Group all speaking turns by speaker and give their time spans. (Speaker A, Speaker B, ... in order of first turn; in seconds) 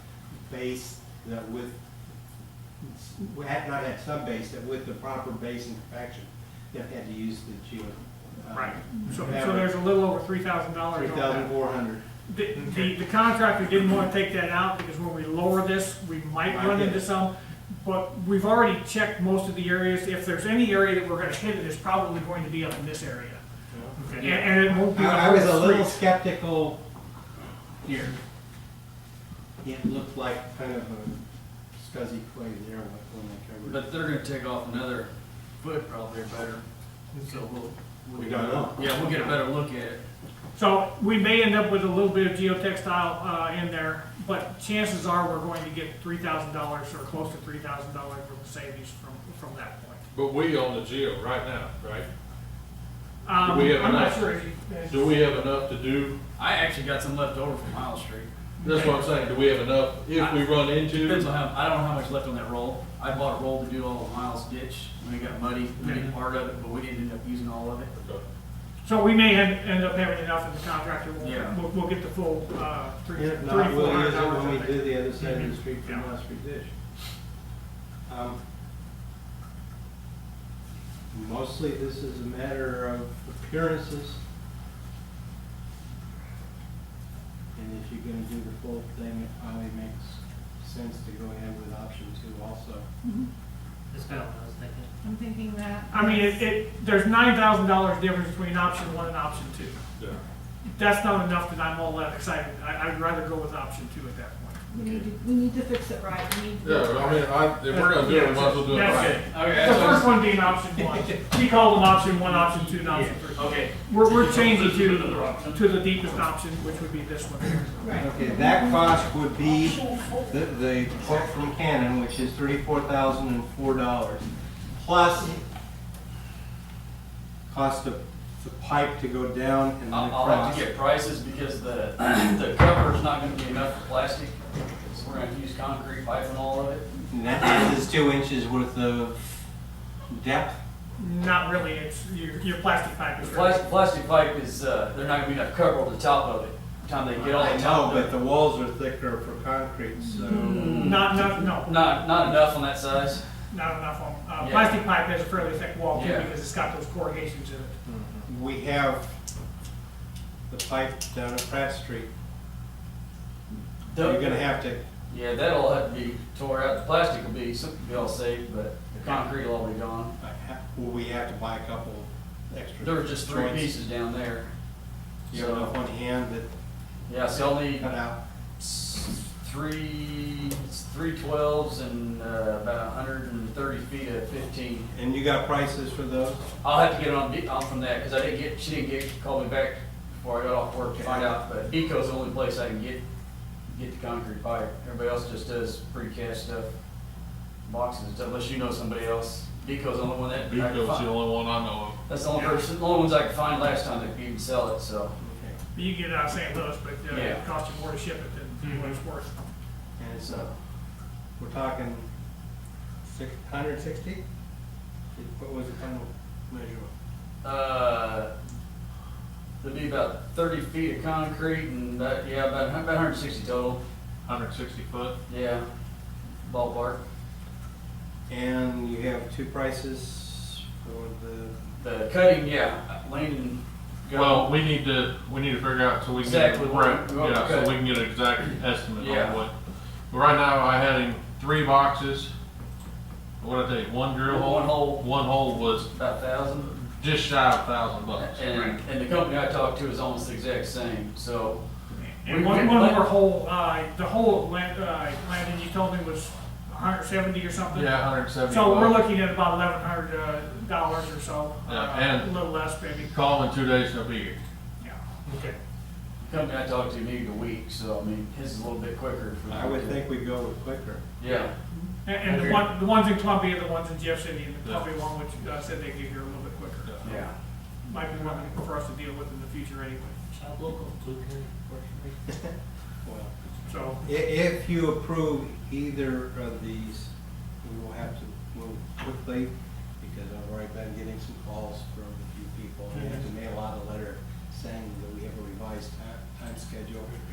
Speaker A: 0.4-1.8, 2.8-9.8, 10.9-12.0, 16.5-17.1, 23.7-26.8, 27.8-28.1, 29.6-31.2, 31.8-33.9, 38.1-39.4, 73.2-76.7, 78.1-78.4, 81.1-84.2, 87.5-92.9, 118.0-124.2, 124.8-125.4, 127.5-130.7, 137.1-139.3, 140.1-140.6, 147.2-150.9, 158.2-159.2, 160.5-162.1, 164.0-164.8, 168.9-169.3, 170.2-173.8, 175.3-176.5, 177.7-178.2, 184.9-186.5, 190.9-191.4, 205.2-205.6, 210.0-210.5, 211.4-212.1, 213.1-214.2, 215.2-216.9, 228.3-231.6, 269.5-271.0, 283.0-283.3, 284.0-287.1, 287.6-297.1
Speaker B: 8.5-11.5, 12.3-23.4, 24.0-26.0, 40.6-50.0, 53.2-55.2, 58.6-59.0, 65.8-66.1, 68.8-76.1, 95.9-99.8, 100.7-104.7, 107.7-117.8, 119.8-120.1, 141.0-143.7, 150.8-151.8, 153.5-157.8, 202.3-202.7, 205.8-209.3, 252.0-263.1, 264.8-265.5, 271.8-277.1, 277.9-280.2, 283.7-284.0
Speaker C: 33.6-36.6, 37.1-40.0, 56.4-58.3, 60.1-67.9, 71.2-71.6, 108.8-110.3, 113.0-115.6, 129.9-136.8, 137.4-137.7, 143.2-148.2, 150.2-153.2, 154.4-154.8, 155.9-156.3, 163.9-164.5, 165.1-170.1, 172.8-174.5, 175.3-175.7, 177.1-177.9, 178.6-184.9, 186.6-193.0, 193.7-196.7, 197.7-201.1, 202.1-205.1, 207.1-207.4, 217.4-218.3, 219.6-223.8, 225.3-225.7, 226.4-227.0, 231.8-234.5, 236.2-237.8, 239.0-239.4, 244.2-245.1, 245.9-246.7, 248.2-251.6, 252.3-253.1, 266.2-270.0, 271.2-271.5, 277.0-277.3
Speaker D: 50.1-52.1, 53.4-54.3, 54.9-56.2, 58.6-61.3, 68.0-68.2, 106.6-109.4, 157.9-158.2, 200.4-202.0, 224.3-225.2, 234.1-239.5, 240.1-242.3, 243.4-245.9, 246.7-248.4, 257.7-259.0, 261.7-264.4
Speaker E: 93.9-94.9, 208.6-209.0, 272.2-272.7, 280.3-282.2, 292.9-293.3
Speaker F: 95.0-96.5, 104.7-107.5, 117.8-118.8